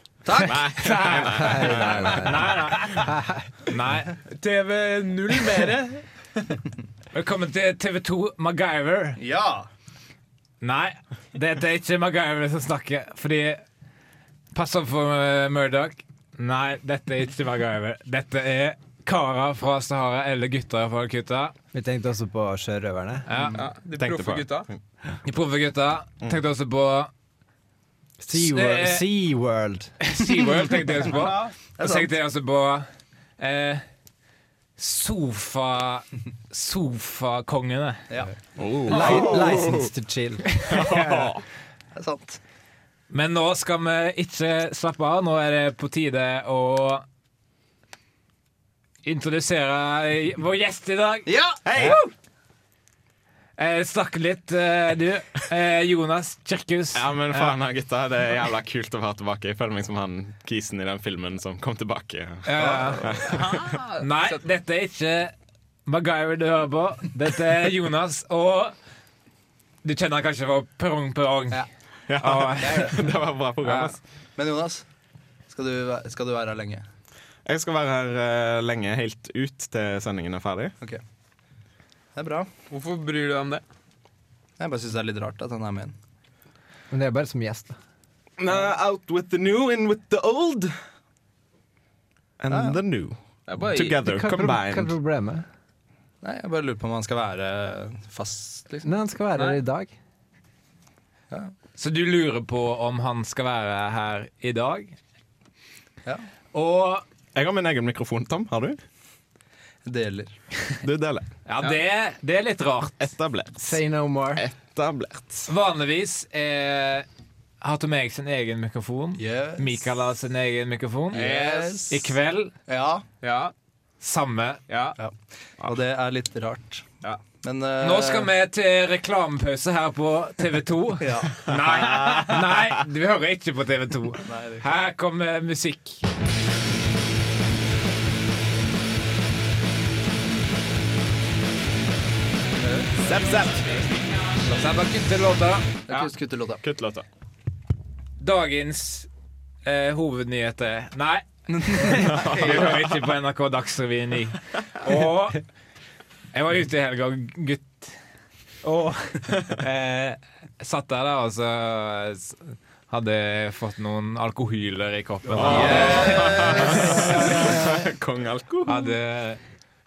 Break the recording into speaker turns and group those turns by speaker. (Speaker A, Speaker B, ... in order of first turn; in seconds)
Speaker A: 0.2-0.6, 9.2-9.7, 23.4-23.6, 31.8-32.1, 38.1-38.4, 41.9-42.4, 51.3-52.1, 72.6-73.1, 74.4-74.8, 75.5-76.8, 82.2-82.5, 84.6-86.0, 92.5-92.8, 96.2-98.9, 109.8-110.3, 119.2-119.8, 121.1-122.1, 122.7-123.0, 125.0-126.9, 127.4-128.3, 131.0-131.4, 134.2-134.7, 142.6-143.0, 145.9-146.6, 151.5-152.7, 165.4-167.5
Speaker B: 0.4-1.6, 2.2-3.1, 3.7-4.1, 7.1-9.2, 10.6-13.6, 14.5-21.5, 23.3-23.6, 25.2-27.1, 28.3-29.1, 30.0-32.9, 33.4-33.9, 34.8-38.0, 40.6-41.3, 43.1-47.0, 49.0-52.0, 53.6-57.5, 62.5-63.4, 64.0-65.3, 65.9-68.7, 69.8-73.0, 73.6-73.9, 101.8-105.0, 106.5-107.0, 111.5-113.1, 115.5-117.1, 117.6-121.2, 121.9-122.5, 124.0-124.6, 127.8-136.0, 144.5-145.7, 148.2-149.1, 149.7-155.4, 156.3-157.9, 158.6-167.8, 168.7-169.4
Speaker C: 0.4-2.3, 24.0-24.8, 38.6-39.9, 40.6-41.4, 51.7-52.0, 56.9-63.6, 72.1-74.0, 77.5-80.8, 88.4-90.7, 92.4-94.9, 107.3-108.8, 110.8-111.3, 113.0-113.7, 114.3-115.5, 131.9-132.3, 143.0-143.7, 146.6-147.1, 152.1-152.9, 165.3-168.9
Speaker D: 1.4-2.3, 3.0-3.5, 21.7-23.3, 28.2-29.9, 38.9-40.5, 86.9-87.8, 94.0-95.5, 98.8-99.9, 113.6-114.4
Speaker E: 4.3-6.0, 23.5-24.7, 63.3-64.4, 82.7-83.6, 93.5-94.0, 121.2-121.8, 123.2-123.5, 124.7-125.0